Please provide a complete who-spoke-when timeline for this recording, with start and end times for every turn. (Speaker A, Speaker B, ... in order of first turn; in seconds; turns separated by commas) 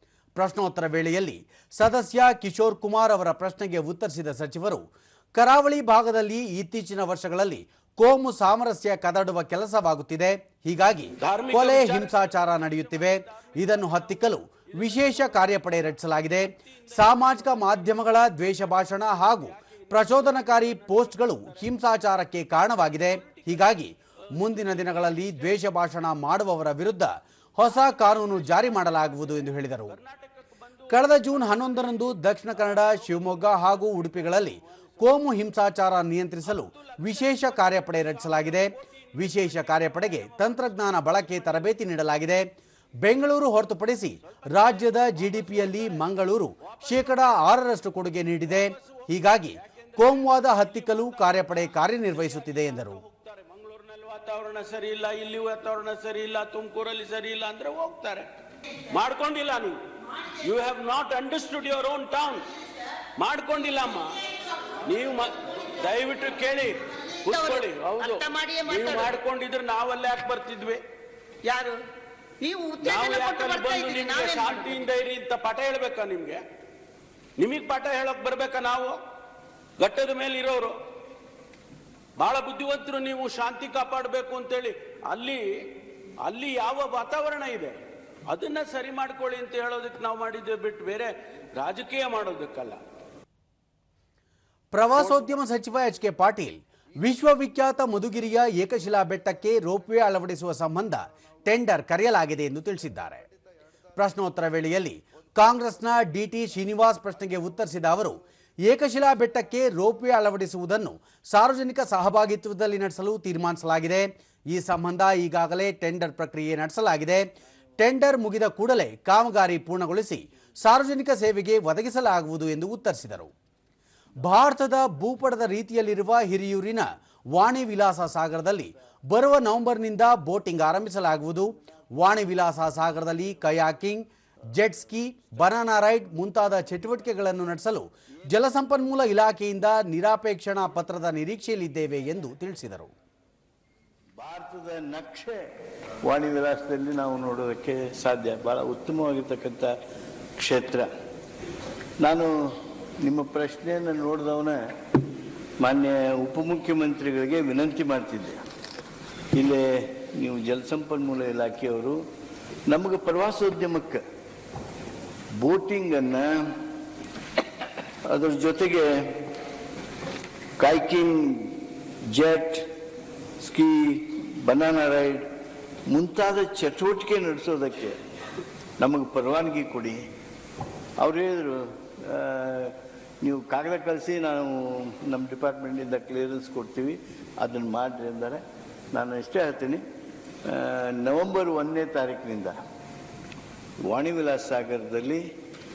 Speaker A: 0.4-4.8, Speaker A: 5.4-30.0, Speaker B: 11.2-12.3, Speaker A: 30.9-42.5, Speaker A: 43.0-53.0, Speaker B: 53.0-58.3, Speaker B: 58.9-59.8, Speaker B: 60.3-62.5, Speaker B: 63.2-64.3, Speaker B: 64.8-70.8, Speaker C: 67.0-69.2, Speaker C: 71.4-71.8, Speaker C: 72.4-74.8, Speaker B: 72.8-76.4, Speaker B: 77.4-79.0, Speaker B: 79.8-80.8, Speaker B: 82.2-85.7, Speaker B: 86.2-92.8, Speaker A: 94.7-103.2, Speaker A: 104.0-123.3, Speaker A: 124.2-134.1, Speaker A: 134.6-142.9, Speaker D: 144.2-145.4, Speaker D: 146.1-149.7, Speaker D: 150.4-150.9, Speaker D: 152.0-154.6, Speaker D: 155.6-158.4, Speaker D: 159.3-162.0, Speaker D: 162.7-164.0, Speaker D: 165.4-166.6, Speaker D: 168.1-169.3, Speaker D: 170.6-172.7, Speaker D: 173.4-175.3, Speaker D: 175.9-178.0, Speaker D: 178.8-180.0, Speaker D: 181.0-188.4, Speaker D: 188.9-189.8, Speaker D: 190.5-192.6, Speaker D: 193.9-195.2